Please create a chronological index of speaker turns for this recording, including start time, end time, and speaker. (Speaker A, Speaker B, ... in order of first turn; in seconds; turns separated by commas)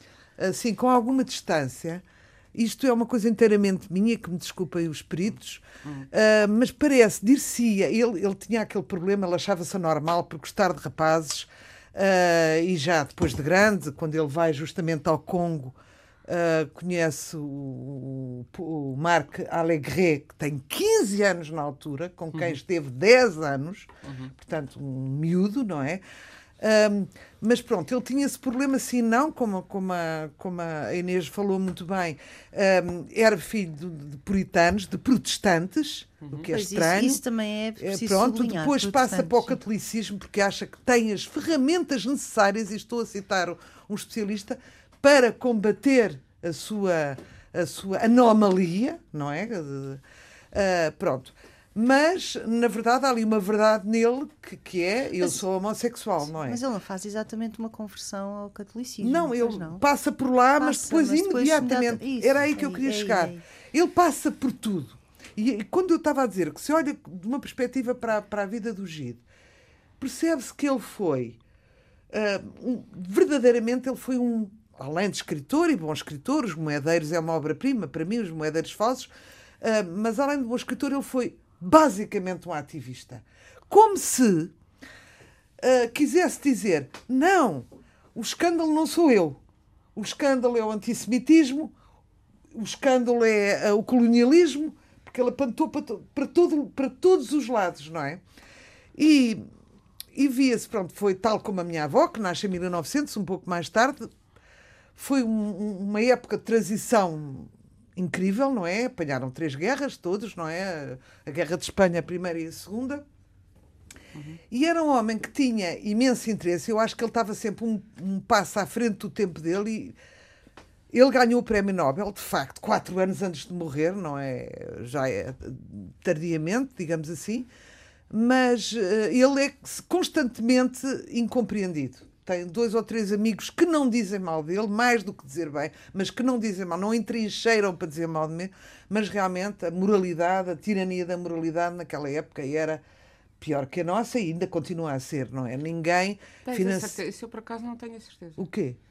Speaker A: 0.4-26.0, Speaker B: 22.3-22.6, Speaker B: 24.0-24.3, Speaker A: 26.6-37.2, Speaker B: 36.2-36.5, Speaker C: 36.5-39.6, Speaker A: 37.8-56.6, Speaker C: 56.4-59.8, Speaker A: 59.0-69.2, Speaker C: 60.6-63.4, Speaker A: 70.0-71.4, Speaker A: 72.1-79.1, Speaker A: 79.6-84.5, Speaker A: 85.6-89.4, Speaker A: 89.9-91.7, Speaker A: 92.5-98.2, Speaker A: 98.9-99.4, Speaker A: 100.1-104.1, Speaker A: 105.0-113.0, Speaker A: 114.5-120.0, Speaker A: 120.9-127.5, Speaker A: 128.1-142.8, Speaker A: 143.4-147.0, Speaker B: 146.4-148.4, Speaker A: 148.4-148.8